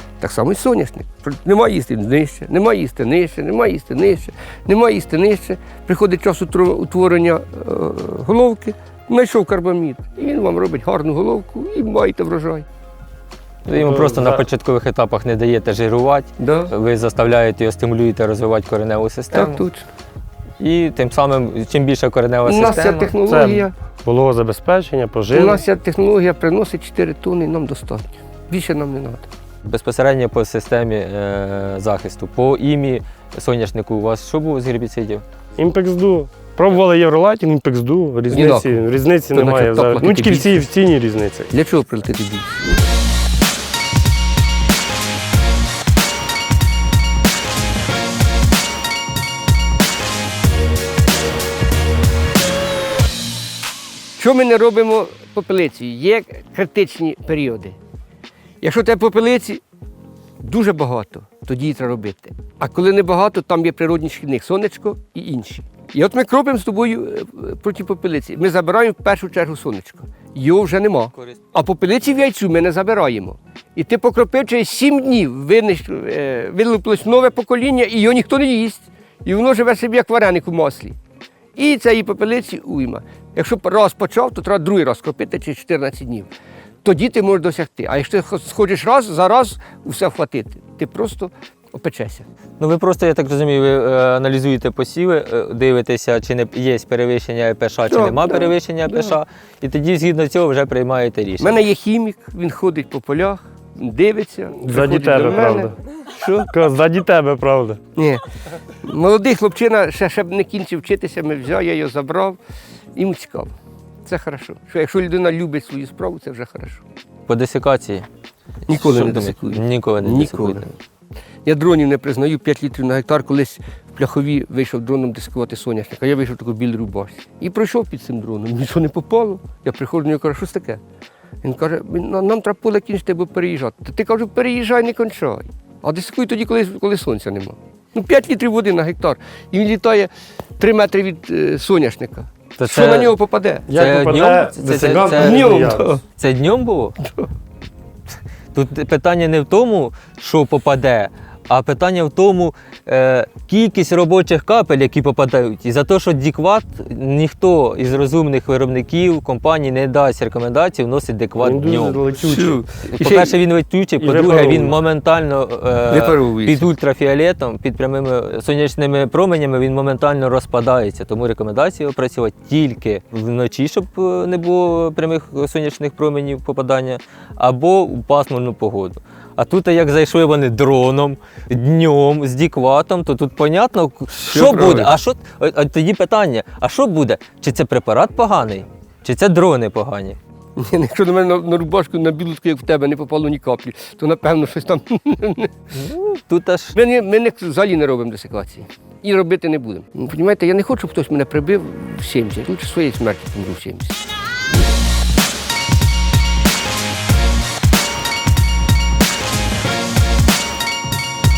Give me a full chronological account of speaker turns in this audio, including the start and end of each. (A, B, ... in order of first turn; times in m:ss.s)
0:00.2-0:12.6 A
0:13.6-0:19.6 B
0:13.7-0:14.4 C
0:16.4-0:16.7 A
0:19.3-0:19.9 A
0:20.6-0:23.1 B
0:22.4-0:23.7 A
0:23.2-0:25.6 C
0:25.3-0:29.3 A
0:29.6-0:35.2 B
0:35.6-0:41.5 C
0:38.3-0:40.7 A
0:41.5-0:42.8 A
0:54.2-0:57.8 A
0:58.6-0:59.6 A
1:00.4-1:21.0 A
1:21.6-1:26.3 A
1:26.8-1:32.2 A
1:32.6-1:41.6 B
1:37.9-1:39.2 A
1:41.4-1:46.5 A
1:44.6-1:45.7 C
1:46.5-1:47.8 C
1:47.9-1:48.2 A
1:48.8-1:52.4 A
1:52.9-1:53.5 A
1:54.0-1:56.8 A
1:57.3-1:58.0 B
1:58.7-2:00.7 A
1:58.7-2:00.7 B
2:01.4-2:10.8 A
2:11.4-2:23.7 A
2:22.6-2:23.2 B
2:23.7-2:26.0 C
2:23.7-2:25.6 B
2:25.1-2:26.0 A
2:26.2-2:27.0 B
2:28.5-2:42.1 B
2:41.4-2:42.6 C
2:42.2-2:43.4 A
2:42.7-3:10.2 B
2:44.0-2:44.8 C
2:45.9-2:46.7 A
3:04.3-3:05.0 A
3:10.6-3:15.5 A
3:15.7-3:16.7 B
3:16.7-3:24.0 A